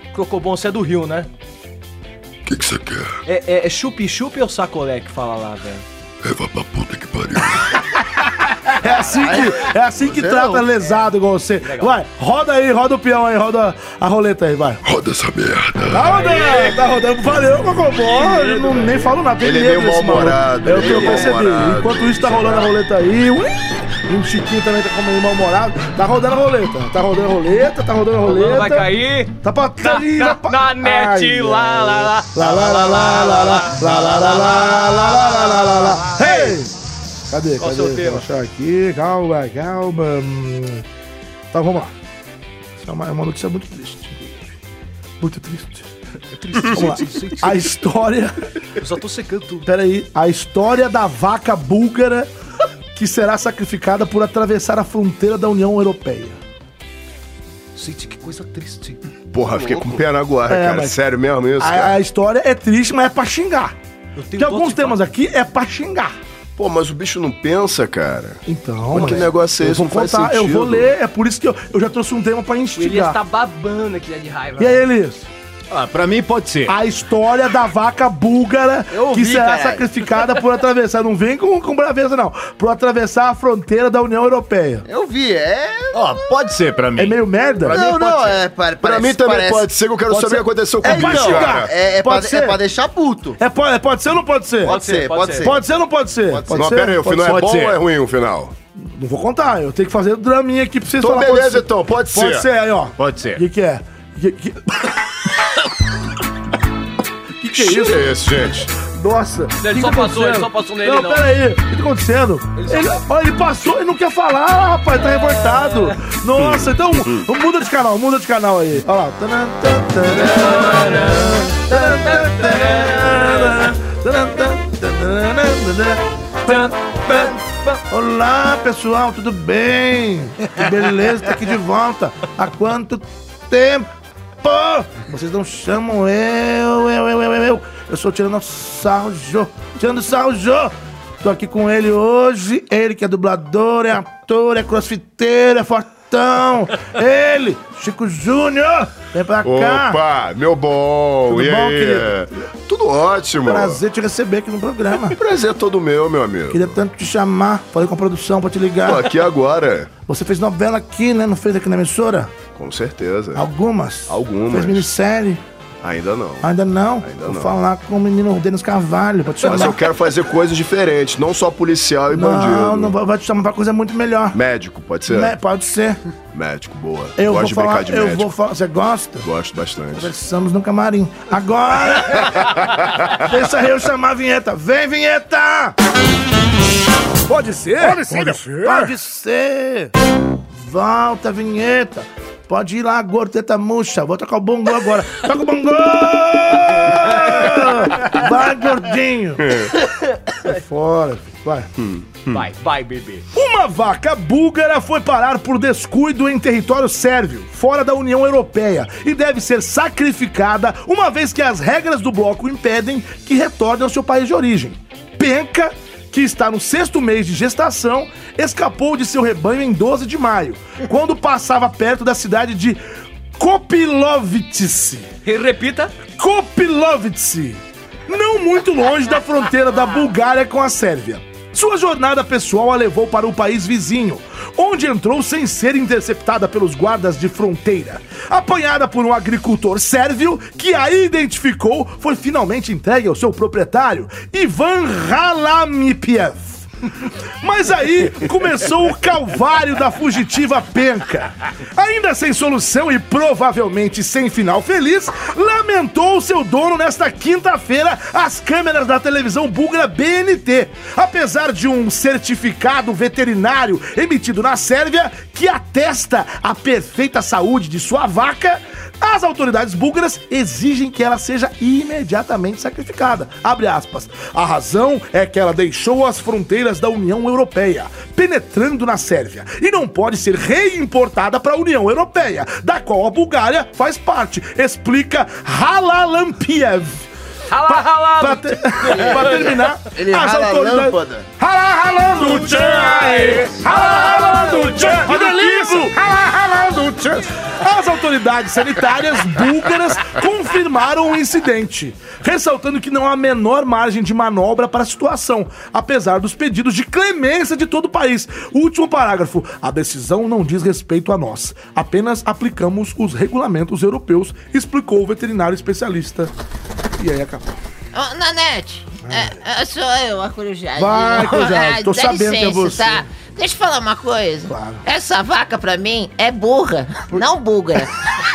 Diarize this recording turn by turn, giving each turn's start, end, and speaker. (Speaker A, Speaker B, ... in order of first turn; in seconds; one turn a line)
Speaker A: 0.1-1.3
Speaker B: 2.5-3.1
Speaker A: 3.2-5.8
Speaker B: 6.2-7.9
Speaker C: 8.7-14.8
Speaker D: 9.1-10.7
Speaker A: 11.6-11.9
Speaker B: 14.8-16.2
Speaker C: 15.9-23.6
Speaker A: 16.0-16.8
Speaker A: 18.0-19.1
Speaker E: 19.4-22.6
Speaker A: 20.7-21.4
Speaker C: 24.1-36.7
Speaker A: 28.2-36.6
Speaker C: 37.3-40.8
Speaker A: 37.6-38.3
Speaker C: 41.5-41.9
Speaker C: 42.8-44.5
Speaker C: 45.2-45.9
Speaker A: 46.3-47.7
Speaker C: 46.6-48.5
Speaker A: 48.8-49.7
Speaker C: 49.6-52.3
Speaker C: 53.0-56.4
Speaker A: 57.8-59.0
Speaker E: 59.3-62.0
Speaker C: 60.5-61.0
Speaker C: 61.6-63.7
Speaker A: 64.2-65.0
Speaker C: 64.4-66.1
Speaker E: 66.6-70.9
Speaker C: 68.5-73.2
Speaker A: 69.0-69.3
Speaker A: 72.8-74.9
Speaker C: 74.6-75.3
Speaker F: 75.7-76.8
Speaker C: 76.7-84.9
Speaker D: 78.9-79.9
Speaker D: 84.9-86.2
Speaker F: 85.9-88.4
Speaker C: 87.0-87.8
Speaker D: 87.7-89.7
Speaker E: 88.8-91.7
Speaker C: 90.1-92.6
Speaker D: 90.8-93.4
Speaker C: 93.4-94.8
Speaker D: 94.6-95.6
Speaker A: 94.7-95.6
Speaker C: 95.4-97.3
Speaker D: 96.3-96.8
Speaker E: 96.5-98.5
Speaker F: 97.1-97.8
Speaker C: 98.8-104.9
Speaker E: 101.0-102.5
Speaker F: 103.0-103.4
Speaker C: 107.4-127.3
Speaker E: 107.5-108.7
Speaker A: 109.6-111.4
Speaker A: 112.6-113.0
Speaker A: 115.0-116.0
Speaker A: 120.1-123.7
Speaker A: 126.5-127.8
Speaker C: 127.9-133.9
Speaker C: 134.4-150.0
Speaker E: 149.4-153.8
Speaker C: 151.3-152.2
Speaker C: 153.4-155.2
Speaker E: 155.0-156.8
Speaker C: 156.5-159.1
Speaker E: 158.8-159.9
Speaker C: 160.1-162.3
Speaker E: 162.6-163.4
Speaker C: 163.3-165.4
Speaker E: 164.1-164.9
Speaker E: 165.8-166.5
Speaker C: 166.4-169.8
Speaker E: 167.0-167.5
Speaker E: 169.4-172.9
Speaker C: 172.1-174.4
Speaker E: 174.3-175.3
Speaker C: 175.1-176.0
Speaker E: 176.3-178.3
Speaker C: 177.2-179.3
Speaker E: 179.2-180.1
Speaker C: 179.9-182.6
Speaker C: 183.1-185.8
Speaker C: 187.3-189.9
Speaker F: 187.8-188.9
Speaker C: 190.6-199.7
Speaker C: 200.4-201.7
Speaker E: 202.0-202.4
Speaker A: 202.3-203.2
Speaker C: 203.3-222.8
Speaker C: 223.4-225.1
Speaker A: 225.2-225.9
Speaker C: 226.1-246.6
Speaker C: 247.4-287.1
Speaker A: 287.5-289.6
Speaker C: 287.7-316.3
Speaker D: 289.0-291.3
Speaker A: 292.2-295.9
Speaker F: 292.4-295.4
Speaker C: 317.0-317.6
Speaker G: 317.9-321.4
Speaker C: 319.0-319.3
Speaker C: 320.8-323.0
Speaker G: 322.9-326.9
Speaker C: 324.5-324.9